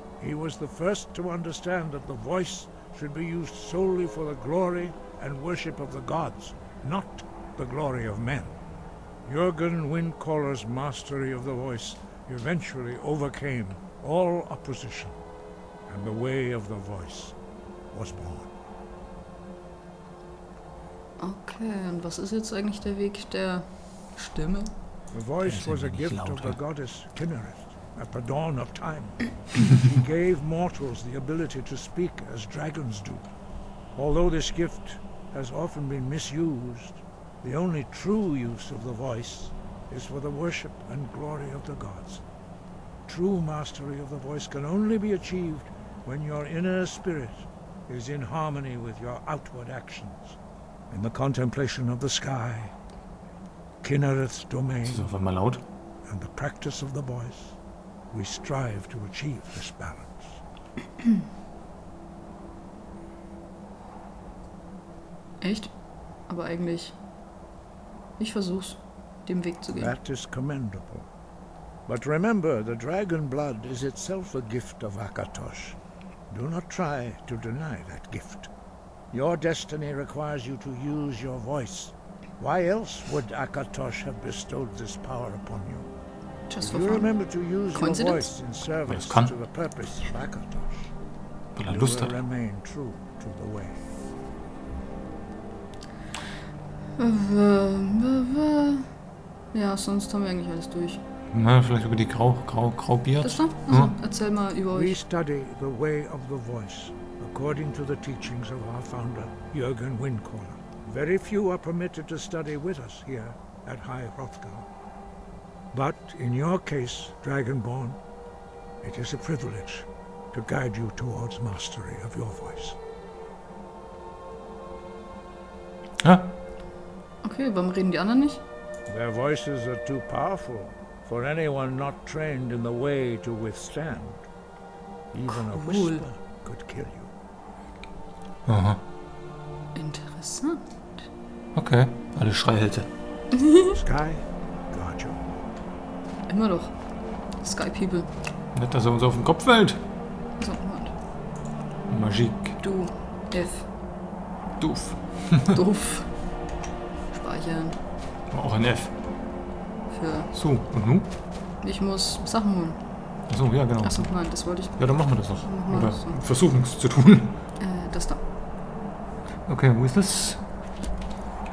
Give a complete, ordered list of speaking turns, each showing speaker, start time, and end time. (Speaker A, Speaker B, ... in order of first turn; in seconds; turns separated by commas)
Speaker A: 0.2-8.6, Speaker A: 9.2-15.2, Speaker A: 15.9-17.4, Speaker A: 17.9-18.5, Speaker B: 21.2-24.7, Speaker A: 25.1-33.2, Speaker C: 25.4-26.6, Speaker A: 34.0-42.2, Speaker A: 43.1-50.4, Speaker A: 50.9-52.7, Speaker A: 53.8-55.1, Speaker C: 54.9-55.6, Speaker A: 56.1-57.6, Speaker A: 58.1-60.4, Speaker B: 65.4-65.7, Speaker B: 66.3-67.0, Speaker B: 68.2-69.9, Speaker A: 69.7-71.1, Speaker A: 71.9-75.8, Speaker A: 76.3-78.5, Speaker A: 79.1-85.9, Speaker B: 86.5-87.1, Speaker A: 86.6-90.9, Speaker B: 87.7-88.3, Speaker C: 88.9-89.3, Speaker C: 91.5-92.1, Speaker A: 91.7-93.8, Speaker B: 97.0-98.9, Speaker B: 99.5-101.0, Speaker C: 101.3-103.9, Speaker B: 103.2-105.0, Speaker A: 104.7-114.7, Speaker A: 115.7-118.0, Speaker A: 118.8-122.8, Speaker C: 126.0-126.3, Speaker B: 127.2-128.4, Speaker A: 128.9-134.2, Speaker A: 135.1-137.1, Speaker B: 135.3-136.0, Speaker C: 138.5-138.8, Speaker B: 139.8-141.1, Speaker C: 141.6-142.9, Speaker B: 143.3-143.8, Speaker A: 143.7-145.4, Speaker B: 146.3-146.8, Speaker B: 147.4-148.1, Speaker C: 148.5-149.8, Speaker B: 150.4-150.9, Speaker C: 151.9-152.6, Speaker B: 152.6-153.7, Speaker C: 154.6-155.6, Speaker B: 155.5-156.1, Speaker B: 157.1-157.8, Speaker C: 158.3-158.9, Speaker B: 159.9-160.3, Speaker C: 160.3-161.1, Speaker B: 161.6-162.8, Speaker C: 163.3-167.4, Speaker B: 163.8-164.9, Speaker B: 165.4-166.2, Speaker B: 167.6-168.2, Speaker C: 169.5-170.4